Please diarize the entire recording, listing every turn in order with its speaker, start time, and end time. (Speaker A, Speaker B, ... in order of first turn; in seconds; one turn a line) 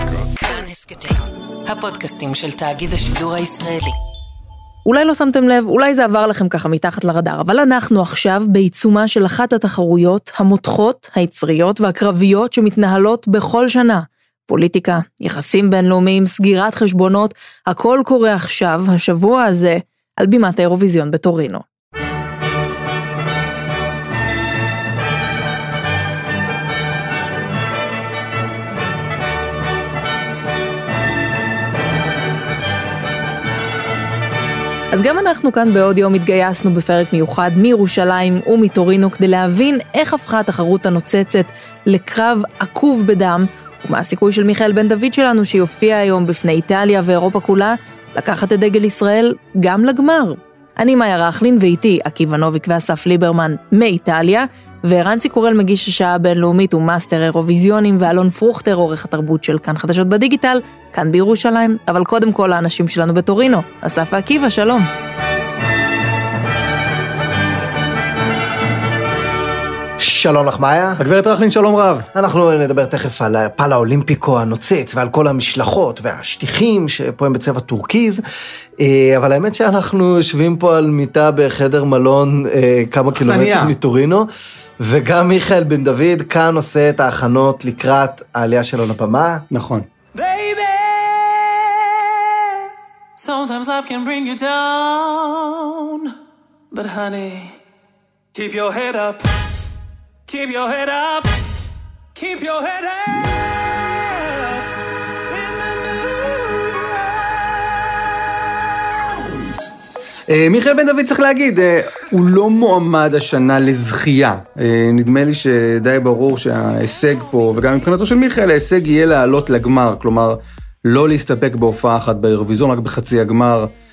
Speaker A: 0.7-1.1
Speaker A: 1.7-3.9
Speaker B: 4.9-21.6
Speaker B: 34.9-64.9
Speaker C: 70.0-71.0
Speaker D: 71.0-72.1
Speaker C: 72.1-78.2
Speaker C: 78.8-84.3
Speaker D: 83.1-83.8
Speaker C: 84.8-89.4
Speaker D: 89.5-89.9
Speaker E: 90.2-91.3
Speaker E: 93.2-95.8
Speaker E: 96.7-97.5
Speaker E: 98.4-99.2
Speaker E: 100.3-101.2
Speaker E: 102.2-103.0
Speaker E: 105.3-106.7
Speaker D: 110.3-123.7